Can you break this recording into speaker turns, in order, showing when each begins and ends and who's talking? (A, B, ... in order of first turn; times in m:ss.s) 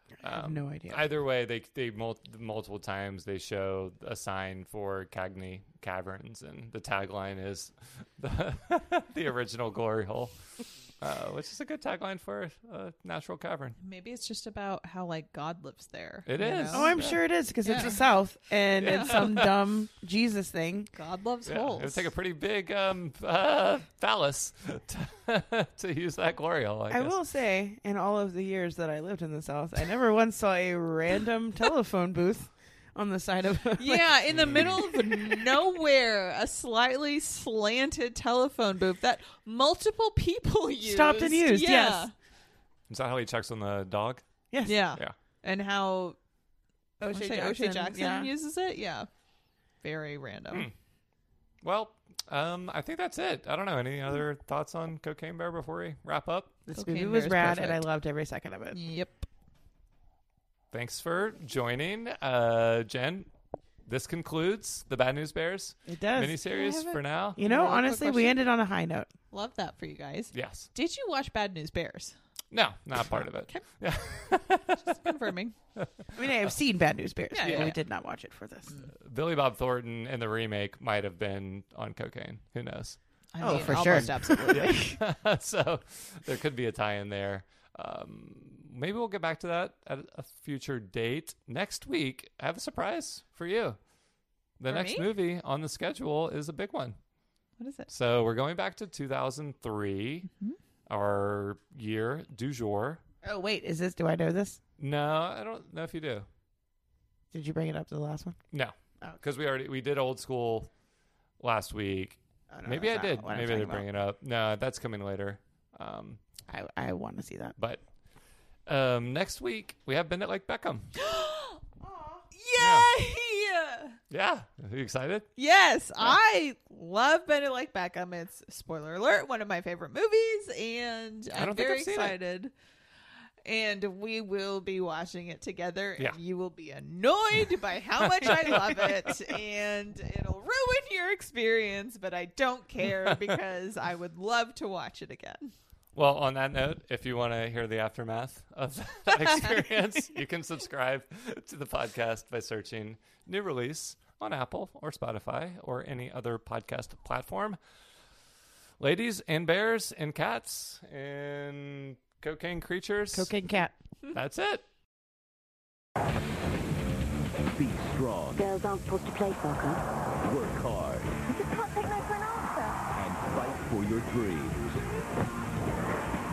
0:00.2-0:01.1 A
0:00.2-0:13.8 B
0:13.8-0:17.0 C
0:16.2-0:17.2 B
0:16.7-0:20.9 A
0:17.6-0:18.1 C
0:18.8-0:19.5 B
0:18.8-0:19.4 C
0:20.9-0:22.1 C
0:21.4-0:27.2 B
0:26.9-0:35.6 A
0:33.8-0:42.1 C
0:34.3-0:34.8 B
0:40.8-0:42.1 A
0:42.9-0:44.2 B
0:44.5-0:44.8 A
0:44.6-0:46.2 C
0:47.0-0:48.3 A
0:47.1-0:49.1 C
0:49.8-0:50.7 C
0:51.6-0:56.6 B
0:56.7-0:58.8 A
0:56.7-0:57.8 C
0:58.7-0:59.3 C
1:00.7-1:03.3 B
1:03.9-1:07.4 B
1:05.9-1:06.4 A
1:06.4-1:08.4 C
1:07.4-1:09.1 A
1:09.3-1:12.1 C
1:10.3-1:10.7 B
1:12.5-1:15.2 B
1:13.1-1:13.6 C
1:14.8-1:15.5 C
1:15.8-1:16.2 B
1:16.1-1:18.7 A
1:17.3-1:17.8 C
1:17.4-1:17.7 B
1:18.7-1:18.9 C
1:19.0-1:33.8 B
1:23.3-1:25.0 C
1:23.4-1:24.7 A
1:34.6-1:37.0 B
1:34.7-1:35.1 C
1:37.6-1:37.9 C
1:37.9-1:40.3 B
1:40.9-1:43.0 B
1:43.2-1:44.6 A
1:44.8-1:46.3 B
1:47.3-1:48.4 A
1:48.5-1:50.7 B
1:51.4-1:56.2 B
1:52.5-1:53.8 A
1:56.5-1:57.6 A
1:58.7-2:00.9 B
2:01.0-2:01.6 C
2:01.8-2:02.2 A
2:02.3-2:04.0 C
2:02.6-2:02.9 B
2:04.1-2:05.3 B
2:05.4-2:12.5 C
2:11.3-2:12.2 B
2:13.4-2:25.5 C
2:18.2-2:18.9 B
2:25.9-2:37.6 B
2:38.8-2:43.3 B
2:43.1-2:43.7 A
2:44.1-2:44.6 B
2:47.5-2:48.4 D
2:48.4-2:49.8 E
2:50.2-2:51.2 D
2:51.2-2:52.8 E
2:52.9-2:54.8 D